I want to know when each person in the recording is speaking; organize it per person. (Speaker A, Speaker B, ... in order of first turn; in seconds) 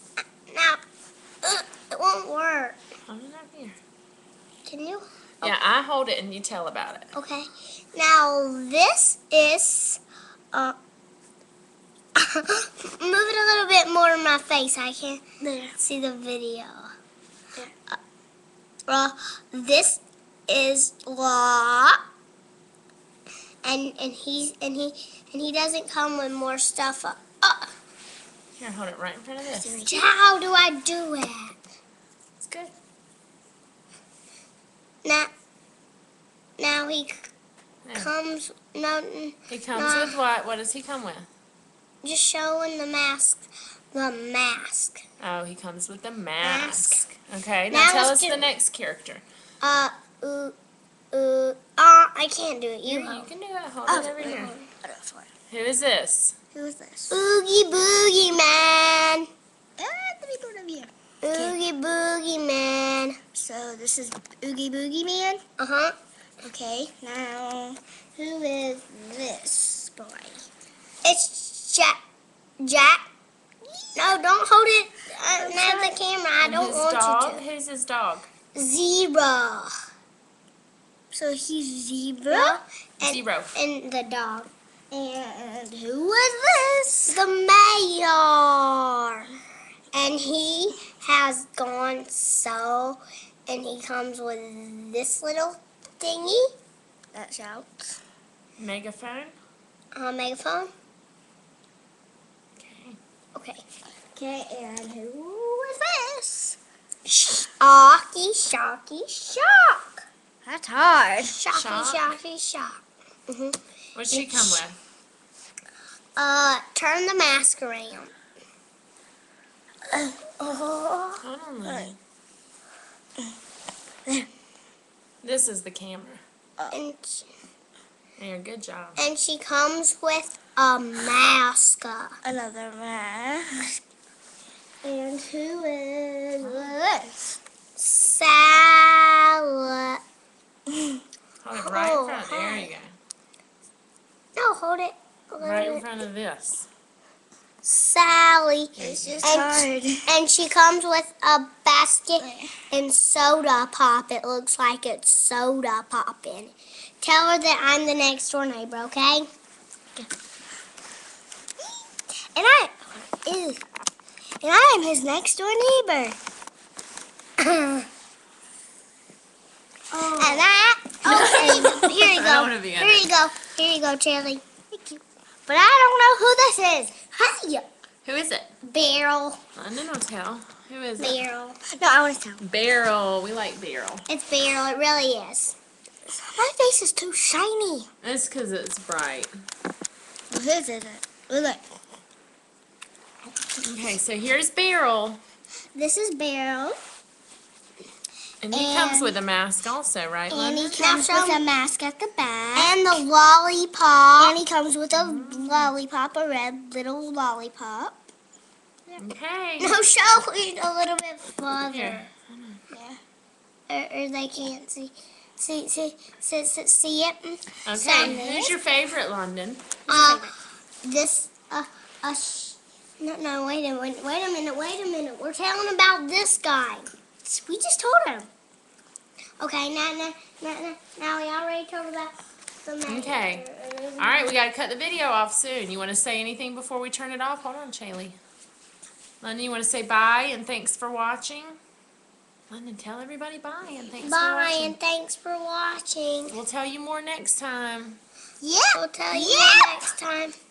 Speaker A: 0.5-0.8, 1.4-2.8, 4.7-5.0, 7.1-10.0, 12.2-15.2, 15.8-16.9, 18.9-22.0, 23.6-27.7, 29.9-31.6, 35.0-35.3, 36.6-37.3, 38.0-40.2, 42.0-45.0, 46.4-47.1, 47.7-48.5, 49.6-50.6, 51.1-53.3, 54.3-54.7, 57.1-59.3, 61.2-63.2, 65.6-66.0, 71.0-72.0, 72.6-73.0, 74.0-77.4, 78.5-79.7, 82.3-84.5, 87.1-89.3, 89.9-96.5, 99.9-100.7, 103.3-103.6, 107.2-110.0, 111.3-113.6, 114.1-114.6, 116.2-118.1, 126.7-127.3, 129.0-132.2, 137.8-140.0, 141.6-142.7, 144.4-145.9, 147.6-159.3, 167.4-167.9, 170.2-174.4, 177.1-177.7, 178.6-179.4, 181.0-181.6, 184.1-185.6, 200.8-201.4, 202.6-204.4, 205.0-205.5, 209.6-212.1, 213.7-218.5, 219.9-220.3, 220.8-228.3, 229.4-234.3, 244.0-246.4, 248.7-250.3
Speaker B: 3.1-3.8, 5.4-7.1, 28.6-29.9, 32.4-32.7, 37.9-38.1, 39.5-41.3, 45.2-49.2, 52.9-54.5, 55.5-56.4, 76.4-78.3, 83.0-83.5, 98.6-99.3, 102.6-103.0, 111.5-112.2, 114.0-114.8, 121.2-122.0, 125.2-126.2, 128.2-129.0, 136.4-136.8, 141.4-143.0, 145.4-146.7, 148.8-149.5, 171.1-173.1, 178.1-178.5, 179.6-181.2, 182.4-184.1, 188.0-189.3, 193.6-195.2, 198.4-200.8, 204.9-205.7, 209.0-209.8, 211.5-212.6, 217.7-219.8, 232.9-233.5, 234.0-238.2, 239.2-241.6, 242.5-244.8, 246.3-248.0
Speaker C: 15.4-15.8, 29.5-30.1, 53.9-55.3, 56.5-57.2, 59.8-61.6, 63.4-65.4, 66.4-70.4, 75.3-76.0, 81.1-82.6, 84.9-87.2, 97.1-98.0, 104.2-106.6, 110.5-111.4, 119.9-121.9, 132.2-133.8, 134.8-137.3, 148.8-150.1, 152.2-152.5, 162.3-163.6, 164.4-166.2, 169.9-172.1, 174.7-177.1, 181.7-182.4, 186.1-187.9, 190.3-191.6, 200.3-203.0, 204.2-204.9, 212.7-213.0, 218.0-218.5, 219.9-220.3, 248.4-249.9